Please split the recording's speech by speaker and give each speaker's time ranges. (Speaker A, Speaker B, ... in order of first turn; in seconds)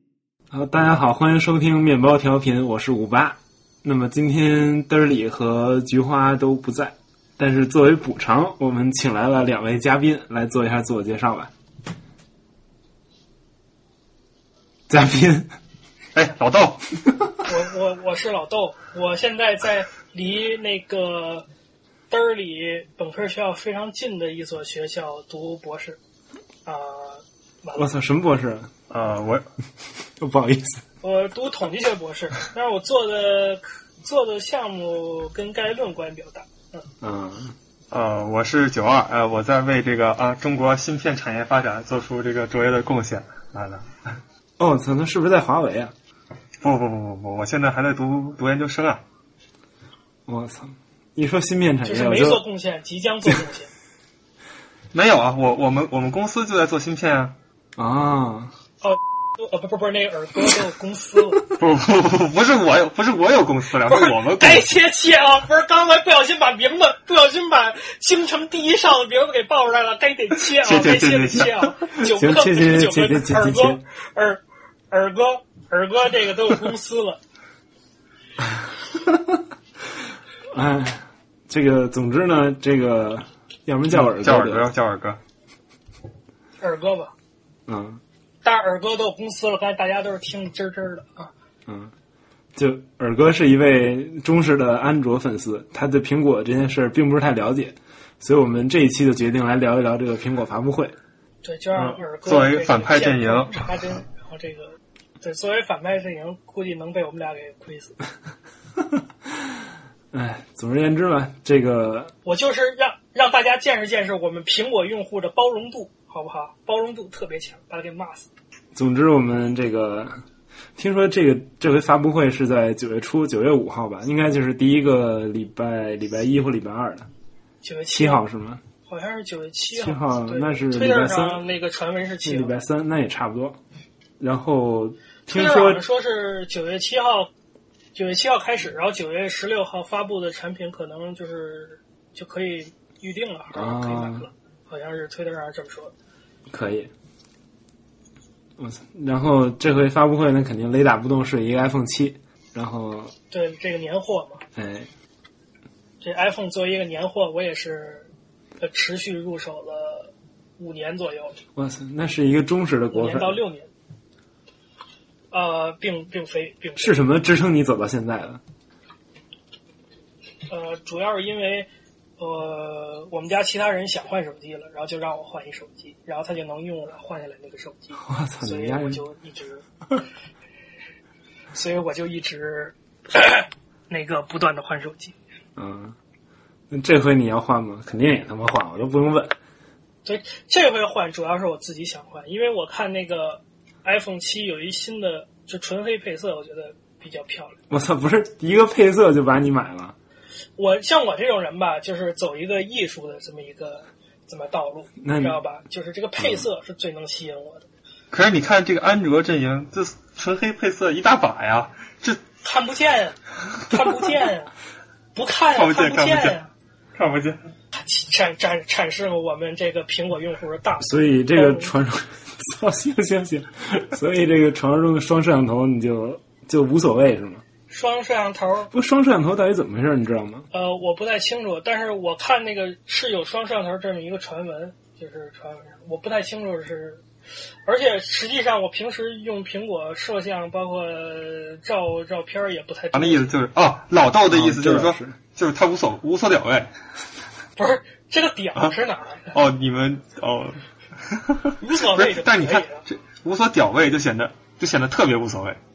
Speaker A: 0.5-11.5, 14.9-15.5, 27.8-28.7, 30.2-30.8, 37.0-37.5, 44.6-45.9, 50.3-52.4, 57.8-58.5, 72.0-73.8, 79.0-79.4, 80.5-84.7, 87.7-88.0, 91.7-91.9, 92.5-101.0, 110.1-112.1, 118.7-120.2, 120.8-127.1, 127.9-128.6, 129.8-131.4, 132.2-133.6, 134.2-135.8, 143.5-144.3, 146.5-146.9, 148.6-153.1, 154.5-154.9, 161.5-163.4, 166.8-168.4, 178.0-179.0, 185.6-185.9, 186.7-189.3, 197.7-199.9, 205.0-205.4, 206.2-206.4, 220.8-227.4, 228.7-230.5, 244.3-245.2
Speaker B: 16.1-16.8, 28.9-29.4, 37.9-44.2, 46.6-49.0, 54.9-57.3, 61.5-64.7, 70.5-71.7, 83.9-85.2, 101.7-103.6, 208.1-212.2, 215.5-216.3, 216.9-217.4, 242.9-246.7, 249.3-255.6
Speaker C: 17.4-21.5, 22.1-26.0, 26.6-27.9, 31.0-36.8, 51.8-53.7, 58.8-61.4, 63.9-77.2, 86.6-87.1, 88.4-91.3, 101.4-104.7, 105.2-107.9, 112.2-118.3, 127.6-128.2, 128.9-132.5, 135.3-137.3, 137.9-145.9, 153.3-154.4, 156.0-158.1, 158.6-161.4, 162.9-163.7, 165.3-167.0, 170.5-179.6, 181.5-185.1, 190.0-197.6, 200.6-207.7, 212.4-214.5, 215.1-216.5, 217.7-221.7, 227.7-228.7, 230.5-237.0, 237.7-243.3, 247.6-249.3, 251.6-252.8